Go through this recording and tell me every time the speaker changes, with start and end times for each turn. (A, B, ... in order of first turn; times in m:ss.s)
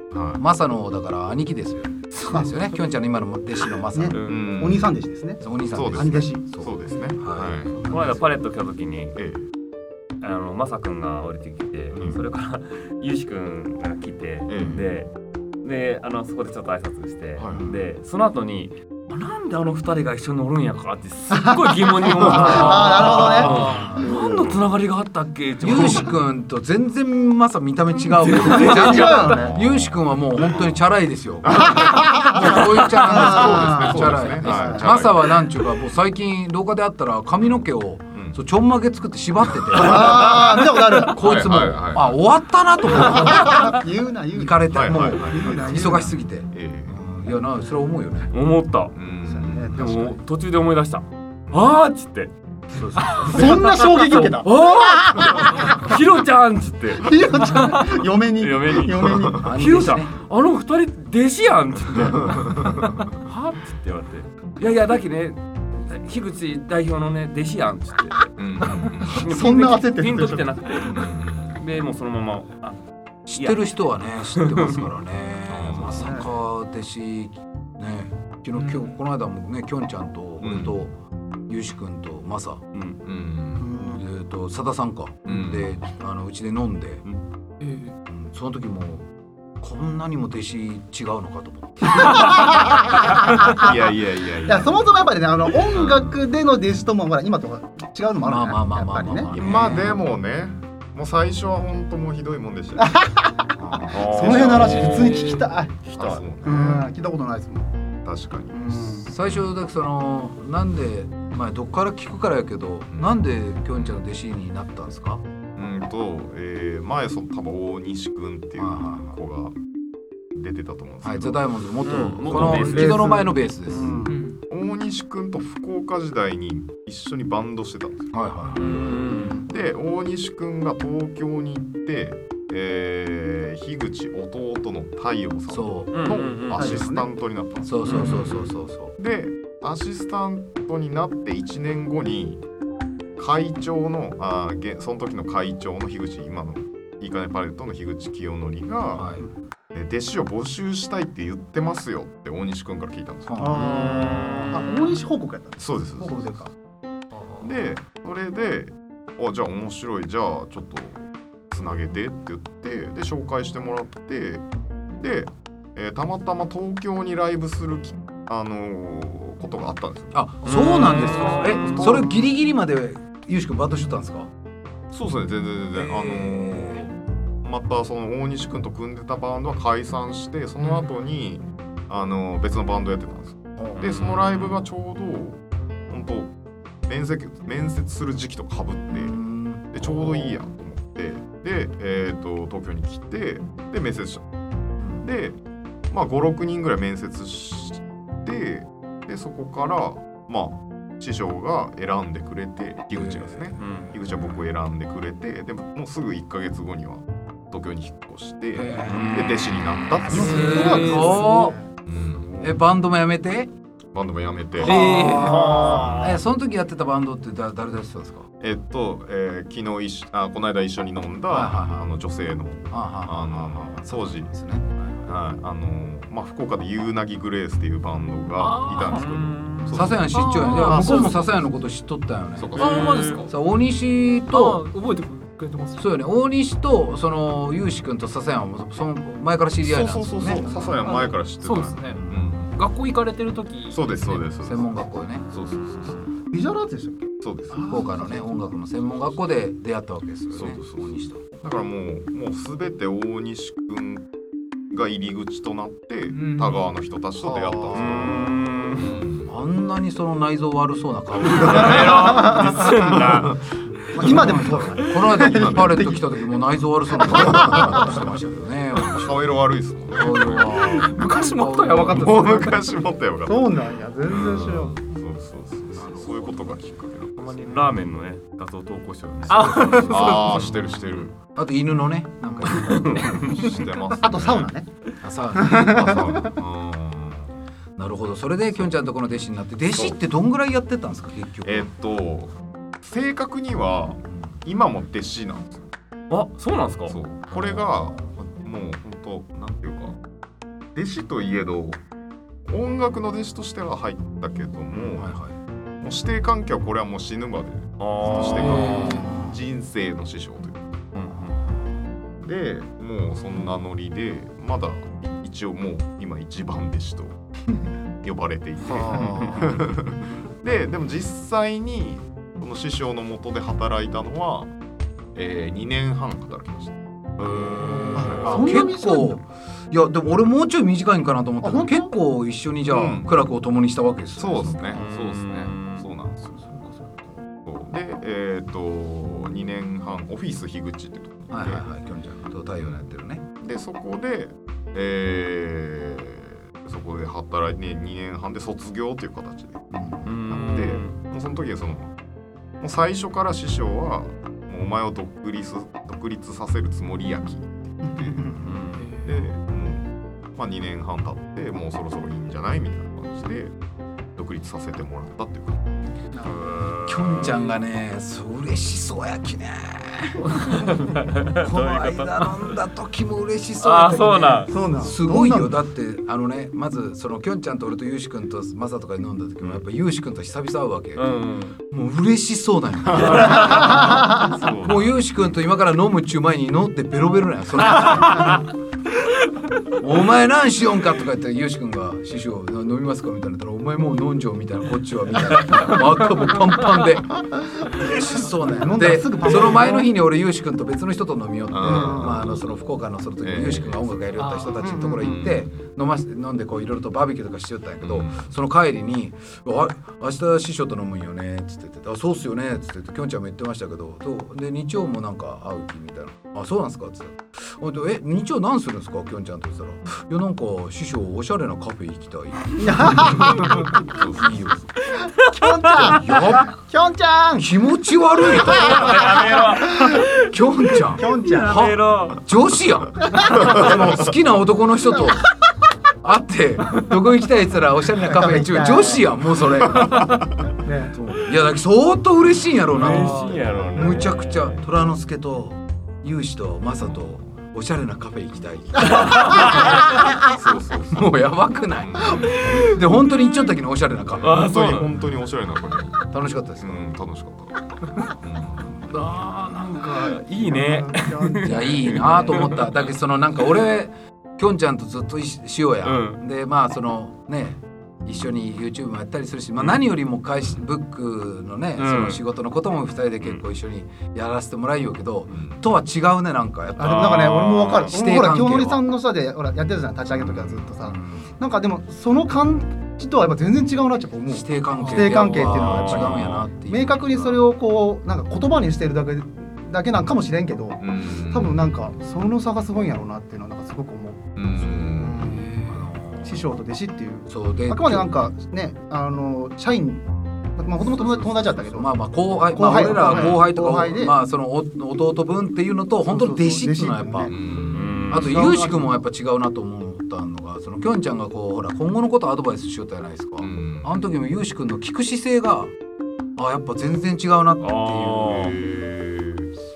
0:00.1-0:00.4 A
0:00.4-0:04.2 B
0:03.9-0:05.4 C
0:04.1-0:04.4 D
0:04.2-0:04.9 A
0:05.4-0:08.0 B
0:05.7-0:08.0 A
0:06.0-0:06.5 C
0:07.8-0:09.2 D
0:09.2-0:09.5 A
0:10.2-0:15.1 D
0:11.9-0:12.2 A
0:14.5-0:14.9 A
0:15.6-0:26.1 D
0:17.4-0:17.7 A
0:17.5-0:17.8 B
0:21.3-0:24.0 C
0:22.2-0:24.6 A
0:23.3-0:24.1 B
0:25.6-0:43.8 B
0:28.3-0:29.2 D
0:28.7-0:29.6 C
0:29.2-0:30.8 A
0:31.4-0:32.4 A
0:31.8-0:34.9 C
0:33.4-0:35.3 A
0:37.4-0:38.4 A
0:39.7-0:40.5 A
0:39.7-0:41.2 C
0:41.2-0:42.2 A
0:42.8-0:46.2 C
0:44.3-0:48.3 B
0:44.7-0:45.7 A
0:46.5-0:47.0 A
0:48.3-0:48.9 D
0:48.9-0:50.0 A
0:49.3-0:50.2 C
0:49.7-1:08.2 D
0:53.2-0:55.9 C
0:57.0-0:59.5 C
0:58.7-0:59.6 A
0:59.3-1:00.2 B
1:02.0-1:03.0 A
1:08.4-1:09.2 A
1:09.1-1:14.8 D
1:09.2-1:10.5 C
1:10.8-1:11.6 A
1:13.3-1:20.9 B
1:15.5-1:16.1 A
1:15.9-1:16.3 C
1:20.4-1:20.9 A
1:21.5-1:22.6 B
1:22.7-1:23.0 D
1:23.0-1:23.7 A
1:23.6-1:24.0 C
1:23.7-1:27.0 B
1:25.3-1:25.7 A
1:27.6-1:27.9 E
1:28.0-1:29.1 B
1:29.6-1:32.5 B
1:32.0-1:33.7 C
1:33.5-1:34.9 A
1:34.4-1:40.0 C
1:35.7-1:36.2 A
1:38.2-1:39.9 B
1:39.3-1:43.0 A
1:42.8-1:45.8 C
1:43.6-1:44.0 B
1:43.9-1:46.2 D
1:44.0-1:45.1 A
1:45.0-1:45.4 E
1:46.0-1:46.9 A
1:46.4-1:47.7 C
1:48.0-1:49.5 A
1:48.5-1:49.1 C
1:48.6-1:55.2 B
1:52.9-1:53.2 A
1:55.6-1:59.6 A
1:58.6-1:59.2 B
2:00.4-2:01.5 A
2:01.0-2:04.0 B
2:01.8-2:03.1 D
2:02.2-2:02.9 A
2:02.5-2:04.2 C
2:03.7-2:04.0 D
2:04.1-2:04.4 E
2:04.5-2:22.4 A
2:08.1-2:09.1 B
2:08.6-2:09.4 D
2:09.2-2:09.5 C
2:15.5-2:16.0 B
2:15.9-2:16.8 D
2:16.5-2:17.1 C
2:17.6-2:18.9 B
2:17.8-2:18.2 D
2:23.2-2:29.1 A
2:28.9-2:29.2 B
2:29.7-2:33.4 A
2:33.2-2:34.6 B
2:33.4-2:36.5 C
2:33.5-2:34.6 D
2:35.6-2:36.3 A
2:37.1-2:37.7 B
2:37.4-2:44.4 A
2:45.0-2:50.2 A
2:50.1-2:54.3 B
2:50.4-2:52.0 D
2:51.6-2:52.3 A
2:54.9-2:56.9 A
2:55.8-2:56.9 B
2:57.4-3:05.4 A
3:03.6-3:03.9 B
3:03.8-3:04.6 D
3:05.9-3:06.3 A
3:06.9-3:09.2 A
3:08.9-3:10.3 B
3:09.7-3:14.3 A
3:14.8-3:15.1 B
3:15.0-3:15.4 A
3:15.9-3:30.9 A
3:22.9-3:23.6 B
3:23.6-3:23.9 D
3:28.5-3:29.4 B
3:28.8-3:29.4 D
3:30.0-3:31.6 B
3:30.1-3:31.6 C
3:30.4-3:31.2 E
3:31.9-3:32.5 A
3:32.2-3:32.5 D
3:32.4-3:33.5 B
3:33.9-3:34.8 A
3:34.6-3:38.3 B
3:34.6-3:36.0 C
3:34.9-3:35.3 E
3:35.1-3:36.2 D
3:35.6-3:36.2 A
3:38.4-3:44.3 A
3:41.3-3:42.0 B
3:42.7-3:45.0 B
3:45.0-3:51.6 A
3:48.4-3:49.0 E
3:48.9-3:49.9 D
3:49.7-3:52.8 B
3:50.1-3:51.1 E
3:52.4-3:53.3 A
3:52.6-3:53.3 E
3:52.6-3:53.2 D
3:53.3-3:54.7 B
3:54.3-3:55.8 E
3:55.8-4:00.6 B
3:59.6-4:02.5 A
4:00.3-4:01.1 C
4:00.9-4:02.0 E
4:01.8-4:02.6 B
4:02.5-4:03.8 E
4:03.7-4:06.0 A
4:04.2-4:05.3 B
4:06.3-4:08.5 C
4:07.2-4:07.7 A
4:07.6-4:11.2 B
4:10.3-4:14.1 A
4:14.7-4:18.2 A
4:16.1-4:16.6 E
4:17.2-4:18.4 B
4:17.8-4:19.0 D
4:18.8-4:19.3 A
4:19.2-4:22.7 B
4:21.3-4:22.0 A
4:21.4-4:23.4 D
4:21.8-4:22.5 C
4:22.7-4:23.4 A
4:23.9-4:26.2 C
4:24.0-4:32.2 B
4:24.1-4:24.6 A
4:25.2-4:26.0 A
4:26.9-4:28.0 C
4:27.2-4:28.0 A
4:28.9-4:30.6 A
4:30.5-4:32.6 E
4:31.8-4:37.5 A
4:33.2-4:34.8 C
4:35.7-4:36.7 B
4:37.2-4:40.7 D
4:39.3-4:40.3 E
4:39.4-4:40.2 B
4:39.8-4:41.2 A
4:41.3-4:43.6 B
4:42.3-4:42.6 C
4:42.4-4:43.6 D
4:42.8-4:44.5 A
4:44.0-4:44.7 C
4:45.0-4:46.3 B
4:45.3-4:46.3 C
4:45.8-4:47.4 A
4:47.8-4:51.7 B
4:48.5-4:48.9 A
4:49.7-4:50.0 A
4:51.4-4:55.7 A
4:54.1-4:54.4 B
4:56.1-4:57.0 D
4:56.9-5:00.0 A
4:57.3-4:58.1 B
5:00.7-5:01.8 A
5:02.5-5:05.2 A
5:05.0-5:05.4 B
5:05.8-5:10.8 A
5:07.8-5:08.9 D
5:08.0-5:09.4 B
5:10.9-5:11.4 D
5:11.2-5:11.6 B
5:12.2-5:17.2 A
5:18.0-5:24.5 A
5:18.8-5:19.3 C
5:18.9-5:19.3 D
5:19.2-5:19.6 B
5:25.2-5:28.4 A
5:27.3-5:28.3 D
5:28.0-5:29.2 C
5:28.2-5:34.9 B
5:31.4-5:31.9 C
5:32.7-5:33.1 A
5:34.2-5:36.4 A
5:34.7-5:35.9 D
5:37.4-5:41.7 A
5:41.3-5:43.2 B
5:42.6-5:42.8 A
5:43.4-5:51.9 A
5:49.7-5:50.1 B
5:50.0-5:51.0 D
5:52.6-5:58.4 A
5:57.9-5:58.4 C
5:58.2-5:58.6 B
5:58.4-5:59.0 D
5:58.8-5:59.1 E
5:59.0-6:03.5 A
6:04.2-6:05.6 A
6:06.2-6:07.6 D
6:06.8-6:28.5 B
6:10.3-6:12.6 D
6:13.6-6:14.6 D
6:14.5-6:15.6 C
6:21.0-6:21.6 D
6:23.2-6:24.8 D
6:23.4-6:24.3 C
6:24.2-6:24.9 A
6:29.7-7:04.9 B
6:37.8-6:39.9 C
6:41.5-6:42.5 A
6:41.6-6:42.2 C
6:43.1-6:44.4 A
6:44.5-6:45.1 C
6:45.0-6:45.6 A
6:47.8-6:48.3 A
7:02.5-7:03.6 C
7:03.7-7:04.4 A
7:05.1-7:07.5 C
7:05.8-7:06.5 B
7:07.4-7:09.1 B
7:08.3-7:10.2 D
7:08.8-7:09.9 C
7:10.1-7:15.3 B
7:10.9-7:11.6 C
7:11.1-7:12.2 D
7:13.1-7:13.6 C
7:13.3-7:13.9 A
7:16.0-7:30.3 B
7:18.0-7:19.1 C
7:19.8-7:20.2 A
7:20.6-7:21.0 C
7:22.7-7:24.7 D
7:29.0-7:29.4 D
7:30.2-7:31.2 A
7:30.9-7:34.4 B
7:31.8-7:32.4 A
7:34.2-7:35.0 D
7:34.2-7:36.0 A
7:36.0-7:36.8 B
7:36.6-7:37.7 A
7:38.2-7:38.8 A
7:38.6-7:39.0 B
7:38.8-7:42.7 D
7:40.5-7:41.8 C
7:41.4-7:57.1 B
7:45.8-7:46.2 D
7:51.8-7:52.2 D
7:55.3-7:55.6 A
7:56.8-8:15.6 C
7:56.8-7:58.0 A
7:57.8-7:58.8 B
8:00.2-8:01.4 B
8:04.3-8:07.4 B
8:04.8-8:05.1 E
8:05.6-8:06.3 D
8:10.8-8:11.8 A
8:14.4-8:15.3 A
8:14.6-8:16.5 B
8:15.4-8:15.8 E
8:16.2-8:20.0 C
8:17.3-8:18.2 B
8:20.6-8:21.9 C
8:20.8-8:27.4 B
8:22.4-8:24.2 C
8:26.0-8:27.4 C
8:27.3-8:28.1 A
8:27.7-8:28.3 D
8:28.1-8:35.7 B
8:28.1-8:28.9 C
8:33.4-8:33.9 A
8:36.4-8:38.6 B
8:37.6-8:38.6 D
8:38.2-8:39.5 A